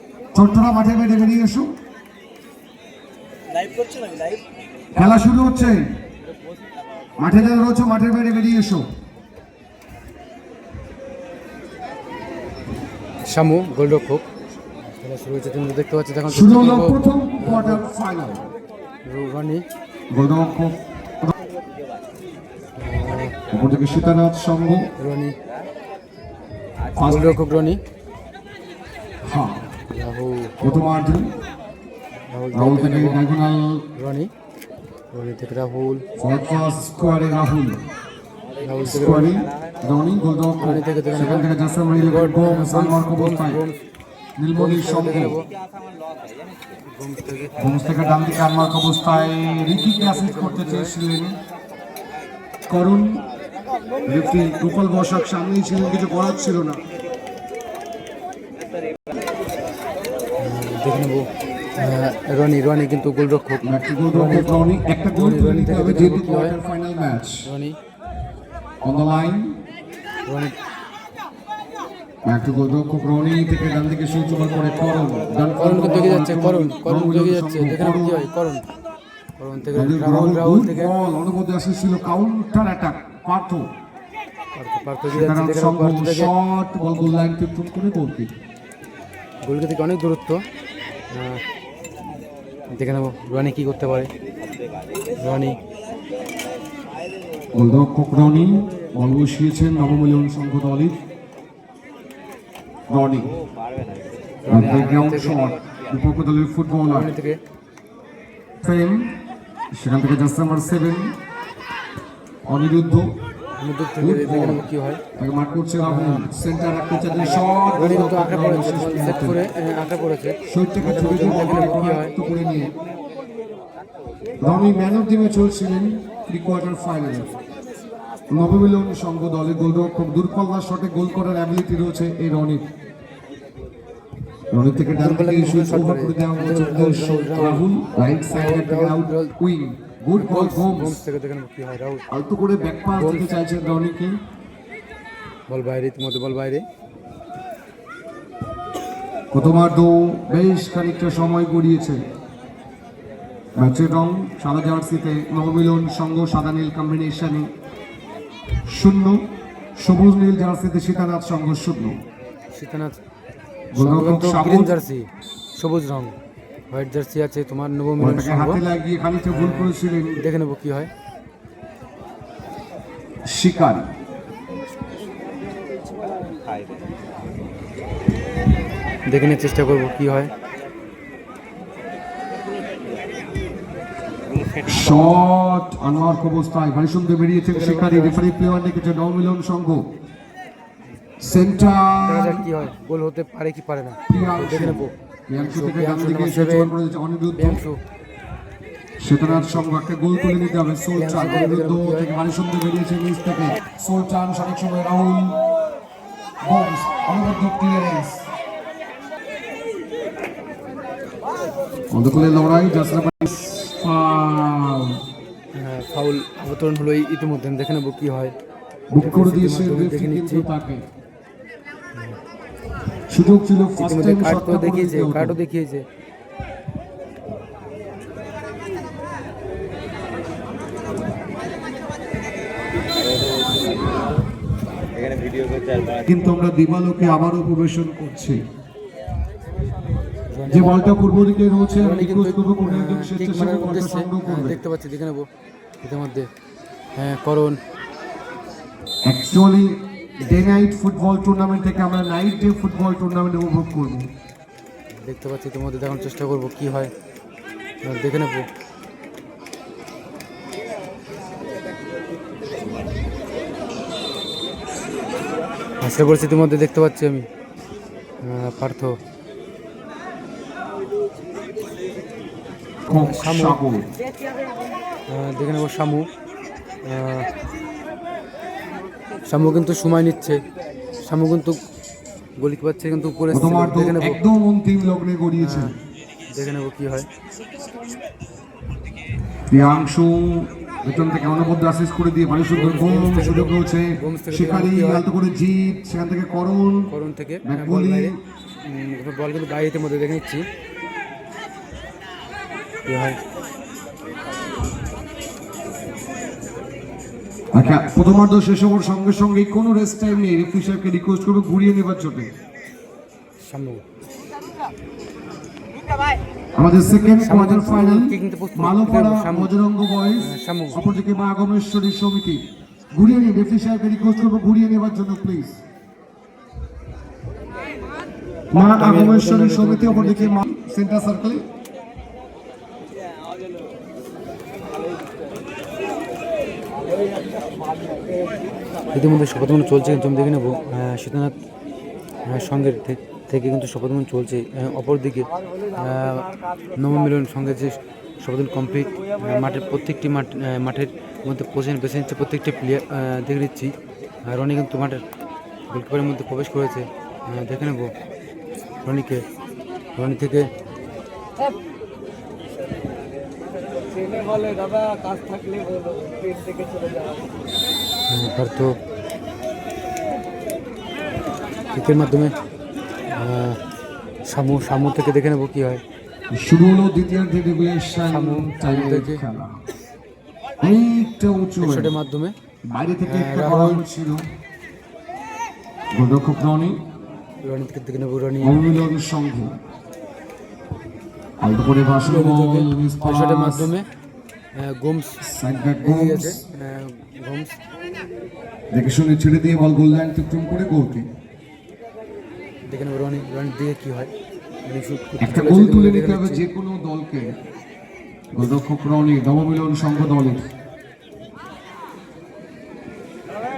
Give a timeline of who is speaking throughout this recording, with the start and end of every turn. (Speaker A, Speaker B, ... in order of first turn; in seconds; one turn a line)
Speaker A: 0.3-1.7
Speaker A: 4.9-5.9
Speaker A: 7.2-8.9
Speaker B: 13.2-14.2
Speaker B: 15.0-17.8
Speaker A: 16.3-18.5
Speaker B: 19.1-19.6
Speaker A: 20.1-21.3
Speaker B: 22.8-23.4
Speaker A: 23.5-24.9
Speaker B: 25.0-25.4
Speaker A: 26.9-27.4
Speaker B: 27.0-27.8
Speaker A: 29.2-29.7
Speaker B: 29.9-30.6
Speaker A: 30.6-31.3
Speaker B: 32.3-33.2
Speaker A: 32.5-33.9
Speaker B: 34.0-34.3
Speaker B: 35.1-36.1
Speaker A: 36.2-37.8
Speaker B: 38.6-39.5
Speaker A: 38.8-43.6
Speaker B: 40.6-43.8
Speaker A: 44.4-45.4
Speaker B: 44.5-45.5
Speaker B: 46.9-47.5
Speaker A: 47.6-51.4
Speaker B: 49.6-51.0
Speaker A: 52.7-53.3
Speaker A: 54.1-56.8
Speaker B: 60.4-66.6
Speaker A: 63.6-67.5
Speaker B: 67.5-67.8
Speaker A: 68.8-69.6
Speaker B: 70.3-70.5
Speaker A: 72.2-78.3
Speaker B: 75.6-78.7
Speaker B: 79.4-80.9
Speaker A: 79.7-83.7
Speaker B: 84.5-86.3
Speaker A: 85.1-88.3
Speaker B: 89.4-90.4
Speaker B: 91.1-91.4
Speaker B: 92.7-94.1
Speaker B: 95.2-95.6
Speaker A: 97.5-101.0
Speaker A: 102.9-103.4
Speaker B: 104.5-105.5
Speaker A: 104.5-107.1
Speaker B: 106.9-107.4
Speaker A: 108.6-109.1
Speaker A: 109.7-111.2
Speaker A: 112.5-113.2
Speaker B: 113.6-115.0
Speaker A: 114.0-114.7
Speaker A: 115.2-119.4
Speaker B: 115.8-116.3
Speaker B: 117.8-122.2
Speaker A: 120.5-122.8
Speaker A: 124.4-127.4
Speaker A: 128.3-132.7
Speaker A: 134.5-141.0
Speaker B: 134.9-137.7
Speaker B: 138.3-139.3
Speaker B: 140.2-142.1
Speaker A: 142.1-144.2
Speaker B: 142.9-143.4
Speaker B: 145.5-146.7
Speaker A: 149.3-152.0
Speaker A: 153.6-157.5
Speaker A: 158.7-159.2
Speaker A: 159.8-162.0
Speaker B: 162.5-163.0
Speaker A: 163.7-164.7
Speaker B: 163.8-166.2
Speaker B: 166.7-168.6
Speaker A: 168.0-170.2
Speaker B: 169.3-170.9
Speaker A: 173.2-173.9
Speaker B: 179.1-180.3
Speaker A: 184.6-189.9
Speaker B: 187.5-188.2
Speaker A: 191.2-192.5
Speaker B: 192.0-196.7
Speaker A: 194.1-197.6
Speaker B: 197.4-197.8
Speaker A: 199.0-205.4
Speaker B: 199.2-199.7
Speaker B: 201.0-202.1
Speaker A: 206.4-208.3
Speaker A: 211.9-215.0
Speaker B: 215.6-218.3
Speaker A: 218.9-220.9
Speaker B: 219.0-220.4
Speaker A: 223.1-225.4
Speaker B: 223.8-225.9
Speaker A: 235.9-238.4
Speaker B: 240.3-240.9
Speaker A: 240.5-244.6
Speaker B: 241.8-245.3
Speaker B: 245.8-246.3
Speaker B: 247.0-247.6
Speaker A: 249.1-254.1
Speaker B: 255.0-256.9
Speaker B: 257.8-258.5
Speaker B: 265.8-267.3
Speaker B: 268.2-268.9
Speaker B: 272.9-273.6
Speaker A: 272.9-273.9
Speaker B: 275.1-276.1
Speaker B: 276.9-277.3
Speaker B: 279.3-280.4
Speaker B: 281.0-281.6
Speaker B: 282.4-284.2
Speaker A: 283.3-285.7
Speaker B: 285.4-285.7
Speaker B: 286.3-287.1
Speaker A: 289.5-296.9
Speaker B: 292.5-295.1
Speaker B: 296.9-300.4
Speaker A: 297.4-298.2
Speaker B: 302.9-303.2
Speaker A: 307.5-312.3
Speaker B: 313.4-313.8
Speaker A: 316.6-325.6
Speaker B: 317.2-319.5
Speaker B: 320.2-320.8
Speaker A: 328.5-331.4
Speaker B: 328.6-330.4
Speaker B: 338.9-341.4
Speaker B: 342.2-355.0
Speaker B: 355.7-357.9
Speaker B: 358.8-359.2
Speaker B: 360.0-360.5
Speaker B: 368.1-368.8
Speaker B: 371.7-372.3
Speaker B: 373.1-373.6
Speaker B: 374.3-375.8
Speaker A: 376.3-379.6
Speaker B: 378.1-379.2
Speaker A: 380.6-381.9
Speaker B: 381.6-382.4
Speaker A: 382.7-384.2
Speaker B: 383.1-383.9
Speaker A: 385.9-386.8
Speaker B: 387.4-388.6
Speaker A: 388.4-389.6
Speaker A: 391.4-393.7
Speaker B: 392.0-393.9
Speaker B: 394.6-395.2
Speaker A: 395.2-396.4
Speaker B: 395.8-397.6
Speaker A: 398.7-401.1
Speaker B: 402.7-404.1
Speaker B: 404.6-406.5
Speaker A: 405.2-407.4
Speaker A: 408.3-410.5